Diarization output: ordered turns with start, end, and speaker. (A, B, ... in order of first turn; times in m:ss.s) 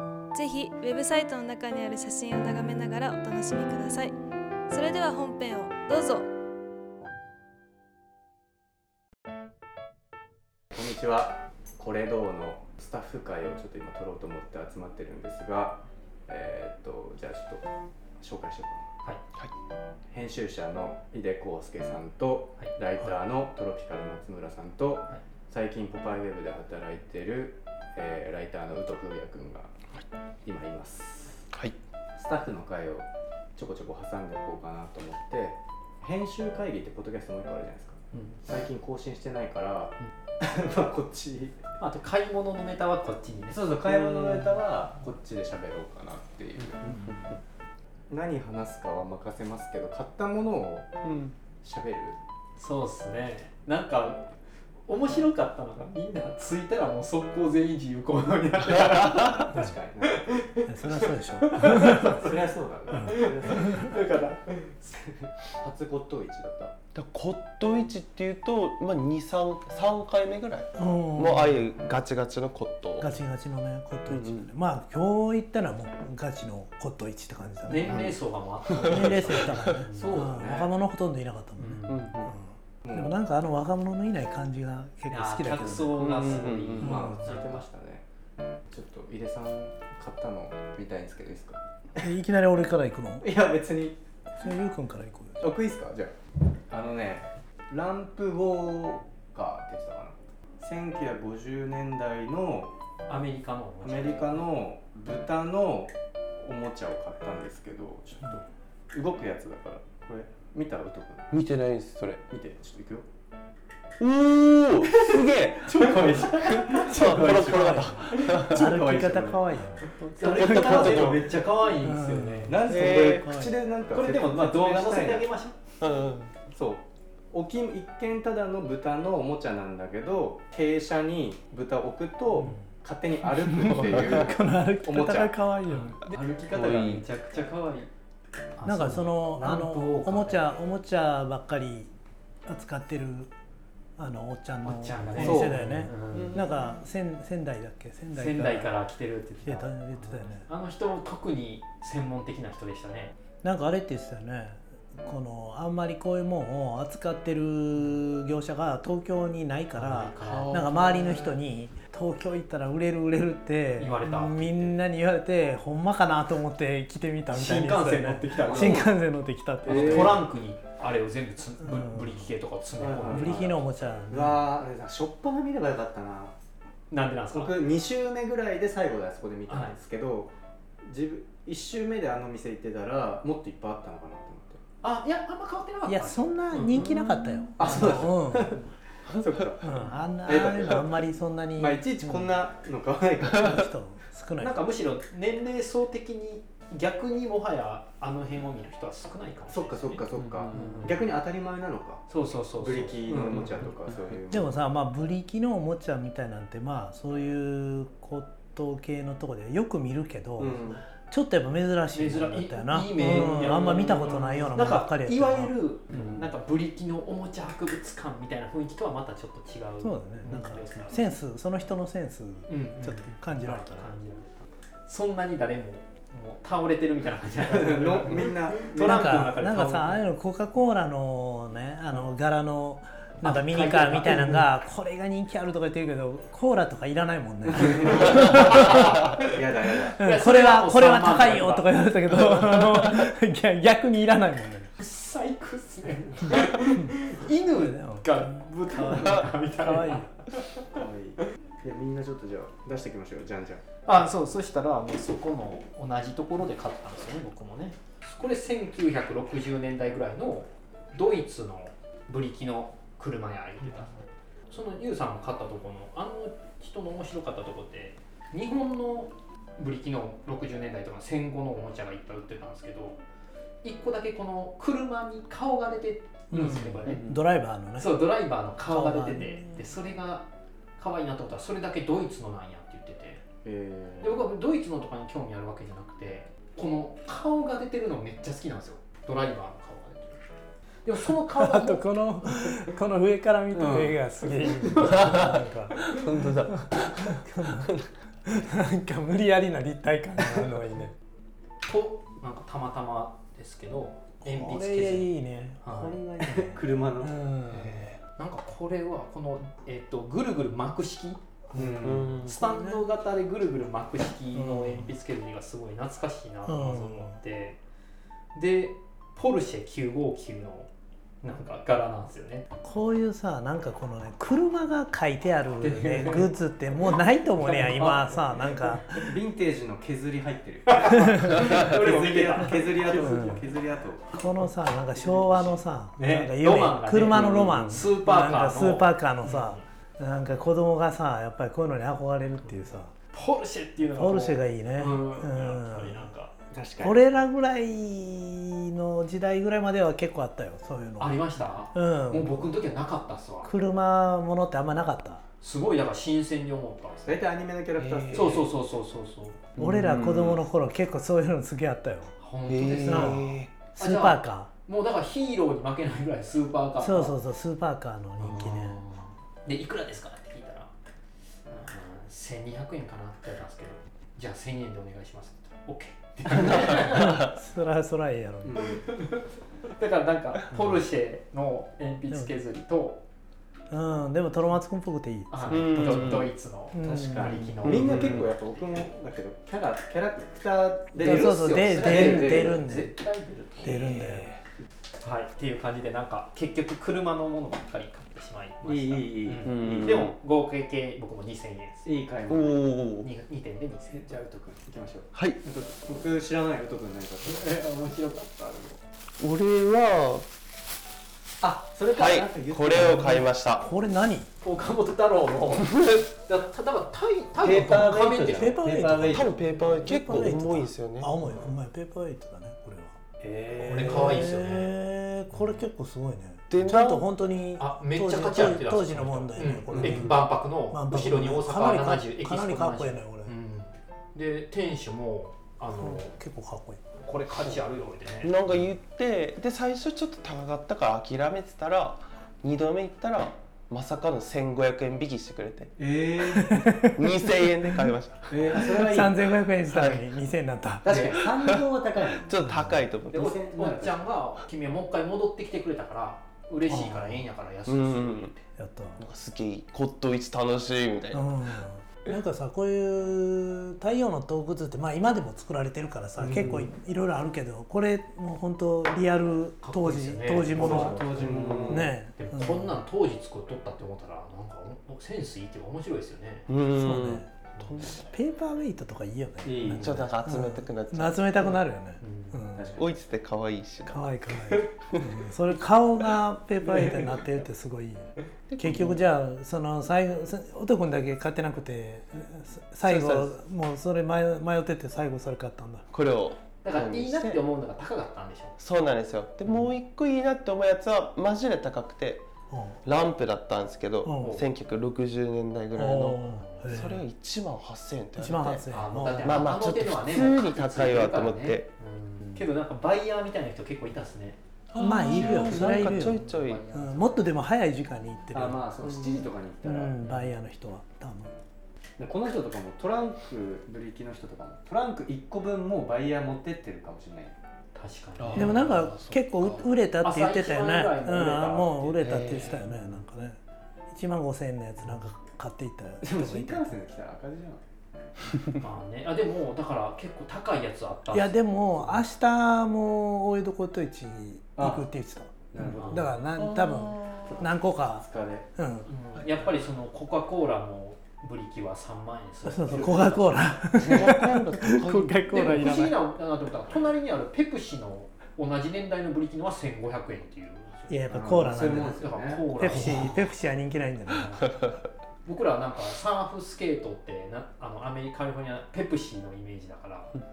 0:00.3-0:04.1 A
0:04.7-0:06.2 A
0:10.7-0:17.6 B
0:18.2-0:18.9 B
0:20.1-0:29.7 B
0:30.4-0:31.4 B
0:32.2-0:41.6 B
0:38.1-0:38.4 C
0:41.8-0:43.7 C
0:43.5-0:47.1 B
0:43.8-0:44.5 D
0:46.8-0:47.2 D
0:48.1-0:50.9 B
0:51.0-0:51.3 D
0:51.6-0:52.2 B
0:52.6-0:54.3 C
0:54.8-0:59.5 C
0:58.8-1:00.3 B
1:00.6-1:02.2 E
1:01.5-1:02.2 C
1:01.8-1:06.7 B
1:02.9-1:03.9 E
1:03.0-1:04.4 C
1:06.9-1:13.1 D
1:10.8-1:11.7 E
1:13.0-1:18.1 E
1:14.1-1:14.4 D
1:17.7-1:20.5 C
1:17.8-1:18.1 B
1:18.8-1:26.2 E
1:19.9-1:20.7 B
1:21.6-1:22.1 C
1:21.9-1:22.3 D
1:22.8-1:23.1 B
1:25.1-1:27.6 C
1:26.0-1:27.0 D
1:26.7-1:28.0 B
1:26.8-1:27.3 E
1:28.7-1:31.6 B
1:32.0-1:33.3 E
1:33.2-1:34.0 B
1:34.4-1:35.5 E
1:35.4-1:36.1 B
1:36.7-1:42.7 B
1:43.1-1:44.4 C
1:43.8-1:51.3 B
1:51.3-1:52.2 D
1:52.3-1:53.0 B
1:54.0-1:58.8 D
1:55.1-1:57.1 C
1:55.7-1:59.5 B
1:57.5-2:03.5 E
2:00.2-2:02.6 C
2:00.2-2:01.5 B
2:00.6-2:01.1 D
2:02.5-2:05.3 B
2:02.7-2:03.3 D
2:03.9-2:05.6 C
2:05.8-2:06.4 D
2:06.5-2:15.4 B
2:13.4-2:16.0 E
2:15.7-2:17.9 C
2:16.5-2:17.0 B
2:18.6-2:20.5 C
2:18.6-2:21.9 E
2:22.5-2:23.3 E
2:24.0-2:28.7 E
2:24.6-2:26.4 C
2:25.2-2:25.6 B
2:26.1-2:26.7 D
2:28.1-2:33.1 C
2:29.4-2:30.5 E
2:33.4-2:50.2 E
2:39.8-2:40.6 C
2:40.2-2:41.4 D
2:43.8-2:44.7 C
2:47.3-2:48.9 C
2:48.4-2:48.9 B
2:49.6-2:53.7 C
2:49.6-2:50.2 B
2:51.6-2:52.3 E
2:52.8-2:56.3 B
2:53.0-2:54.4 E
2:56.9-2:57.6 C
2:57.3-3:04.6 B
2:59.5-2:59.8 C
3:04.8-3:06.8 C
3:05.8-3:08.6 E
3:07.6-3:09.7 B
3:07.6-3:08.1 C
3:09.6-3:12.3 E
3:10.2-3:11.0 B
3:11.6-3:13.6 B
3:13.3-3:14.6 E
3:14.4-3:21.0 C
3:19.5-3:24.6 B
3:20.3-3:20.7 D
3:22.1-3:23.7 C
3:24.3-3:35.6 E
3:30.4-3:30.8 B
3:31.9-3:41.1 C
3:39.8-3:43.9 E
3:42.5-3:50.1 C
3:47.4-3:49.2 B
3:48.8-3:59.1 E
3:53.2-3:54.5 C
3:57.5-3:58.7 B
3:57.9-3:59.1 C
3:59.2-4:00.0 B
4:00.0-4:01.8 C
4:00.0-4:04.7 E
4:04.8-4:10.1 C
4:07.5-4:10.1 E
4:10.7-4:13.6 B
4:13.8-4:24.0 C
4:24.5-4:33.0 C
4:33.6-4:37.1 C
4:36.3-4:38.0 E
4:36.8-4:37.2 B
4:37.8-4:40.2 C
4:38.6-4:39.7 E
4:40.8-4:43.2 C
4:43.4-4:44.2 B
4:44.0-4:50.2 C
4:50.8-4:51.9 C
4:51.1-4:57.7 E
4:53.5-4:55.1 B
4:55.0-4:57.9 D
4:58.3-5:00.9 E
5:01.6-5:06.0 C
5:04.2-5:07.9 E
5:06.2-5:07.1 B
5:07.5-5:11.2 C
5:11.5-5:12.9 E
5:11.5-5:12.1 B
5:11.8-5:12.4 D
5:12.2-5:17.6 C
5:14.3-5:15.0 E
5:16.4-5:17.2 E
5:18.3-5:20.7 C
5:21.2-5:22.4 C
5:22.6-5:29.1 E
5:25.6-5:26.8 C
5:27.4-5:28.9 C
5:29.0-5:34.2 B
5:30.7-5:33.4 C
5:30.8-5:31.7 E
5:32.4-5:33.5 E
5:34.1-5:42.9 E
5:36.0-5:39.6 C
5:43.1-5:46.3 C
5:43.9-5:46.1 E
5:46.5-5:47.0 B
5:46.8-5:52.5 E
5:51.0-5:53.5 C
5:53.4-5:55.2 E
5:55.4-5:57.2 C
5:57.0-5:58.5 B
5:57.8-5:58.4 D
5:58.1-5:59.4 C
5:59.6-6:00.4 D
5:59.6-6:02.1 E
6:02.2-6:07.2 C
6:02.5-6:03.5 D
6:02.7-6:04.5 E
6:06.8-6:08.8 E
6:08.2-6:10.7 C
6:11.5-6:17.2 C
6:16.5-6:18.6 E
6:18.4-6:18.8 B
6:18.6-6:19.2 C
6:19.7-6:23.0 C
6:20.5-6:20.8 E
6:22.1-6:22.3 E
6:23.7-6:27.5 E
6:25.3-6:28.3 C
6:25.5-6:26.3 D
6:26.8-6:32.6 B
6:27.6-6:28.3 D
6:31.0-6:34.2 C
6:31.0-6:32.9 E
6:33.6-6:34.3 E
6:33.7-6:34.2 D
6:35.0-6:41.8 C
6:38.6-6:40.1 B
6:39.4-6:40.1 D
6:41.8-6:42.6 B
6:42.3-6:43.1 D
6:43.0-6:44.1 C
6:43.9-6:48.8 B
6:45.1-6:45.4 D
6:47.2-6:48.7 C
6:49.2-6:50.2 D
6:51.4-6:53.4 B
6:51.8-6:53.7 D
6:53.5-6:54.3 E
6:54.4-6:58.6 C
6:57.4-6:59.9 B
6:57.4-6:57.9 D
6:57.8-7:03.0 E
6:59.0-7:01.1 D
7:03.2-7:04.2 B
7:03.6-7:04.7 C
7:03.6-7:13.3 E
7:05.3-7:05.6 C
7:06.5-7:07.0 D
7:07.6-7:16.1 C
7:09.7-7:10.1 B
7:15.7-7:16.8 E
7:17.0-7:18.4 C
7:18.2-7:25.7 D
7:25.8-7:26.8 B
7:26.3-7:27.9 E
7:27.0-7:28.3 D
7:28.3-7:29.4 B
7:28.5-7:31.2 E
7:29.7-7:30.0 D
7:30.8-7:34.1 B
7:32.2-7:33.4 D
7:33.1-7:38.4 C
7:36.6-7:37.3 E
7:37.7-7:38.3 D
7:38.6-7:39.0 E
7:39.0-7:41.3 D
7:41.1-7:52.8 E
7:46.2-7:46.6 B
7:46.3-7:46.7 D
7:49.6-7:56.5 C
7:50.5-7:51.9 B
7:56.5-7:58.1 D
7:56.7-8:02.7 E
7:59.4-8:00.0 B
7:59.7-8:00.1 C
7:59.7-8:01.2 D
8:02.0-8:02.4 C
8:02.5-8:03.0 B
8:02.7-8:04.2 D
8:03.8-8:15.8 E
8:06.6-8:07.1 B
8:08.5-8:09.0 D
8:12.8-8:13.4 D
8:15.9-8:17.4 D
8:16.6-8:18.6 C
8:18.6-8:22.2 D
8:22.5-8:22.8 E
8:22.8-8:28.6 D
8:24.0-8:24.4 E
8:24.1-8:24.4 C
8:25.7-8:27.0 E
8:28.2-8:29.4 E
8:28.7-8:37.3 C
8:29.2-8:31.7 D
8:34.7-8:36.6 D
8:34.8-8:38.7 E
8:38.3-8:40.0 B
8:39.6-8:41.3 E
8:40.0-8:40.3 C
8:42.0-8:47.3 B
8:47.7-8:53.0 C
8:48.2-8:48.7 B
8:48.3-8:53.4 E
8:53.9-8:56.8 E
8:56.0-8:57.6 B
8:58.5-9:02.0 C
9:01.1-9:08.9 E
9:04.6-9:04.9 B
9:05.5-9:06.2 B
9:05.6-9:06.1 C
9:06.4-9:07.4 D
9:07.2-9:08.4 B
9:08.8-9:13.5 C
9:12.4-9:16.0 E
9:13.7-9:15.2 D
9:15.3-9:23.2 C
9:20.9-9:24.7 E
9:21.1-9:23.2 B
9:24.1-9:24.5 C
9:25.2-9:30.1 C